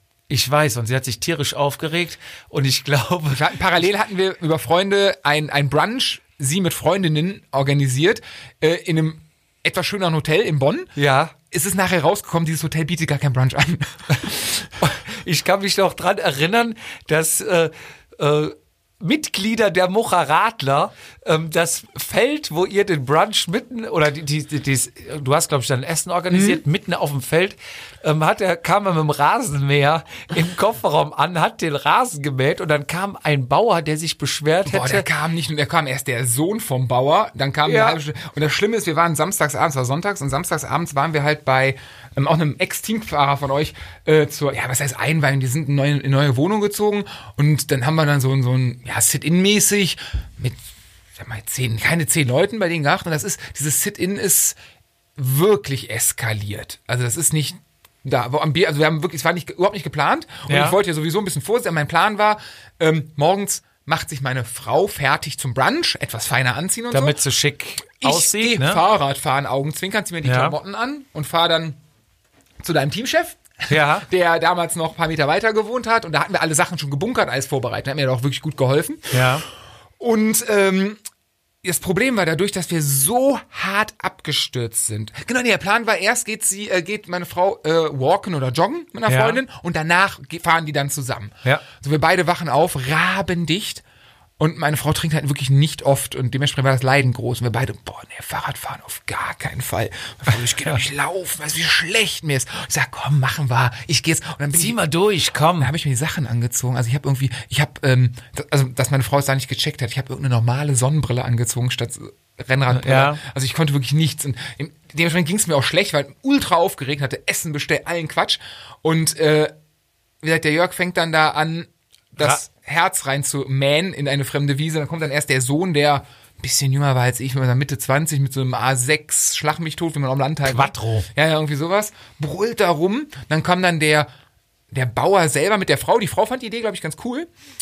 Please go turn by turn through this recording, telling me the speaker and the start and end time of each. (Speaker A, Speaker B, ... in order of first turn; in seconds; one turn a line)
Speaker A: 0.3-3.6
Speaker B: 3.3-10.9
Speaker A: 11.0-11.3
Speaker B: 11.5-14.7
Speaker A: 14.8-35.1
Speaker B: 26.3-26.6
Speaker B: 34.7-50.6
Speaker A: 37.6-38.0
Speaker B: 51.2-54.6
Speaker B: 55.2-67.2
Speaker A: 60.5-60.8
Speaker A: 66.9-68.8
Speaker B: 68.0-71.8
Speaker A: 70.2-70.6
Speaker B: 72.6-79.3
Speaker A: 73.7-74.1
Speaker A: 79.1-79.5
Speaker B: 80.0-81.0
Speaker B: 81.6-93.8
Speaker A: 89.1-89.4
Speaker B: 94.4-104.8
Speaker A: 104.5-105.7
Speaker B: 105.6-119.5
Speaker A: 112.7-113.2
Speaker B: 120.2-134.1
Speaker A: 130.4-131.1
Speaker B: 134.7-137.3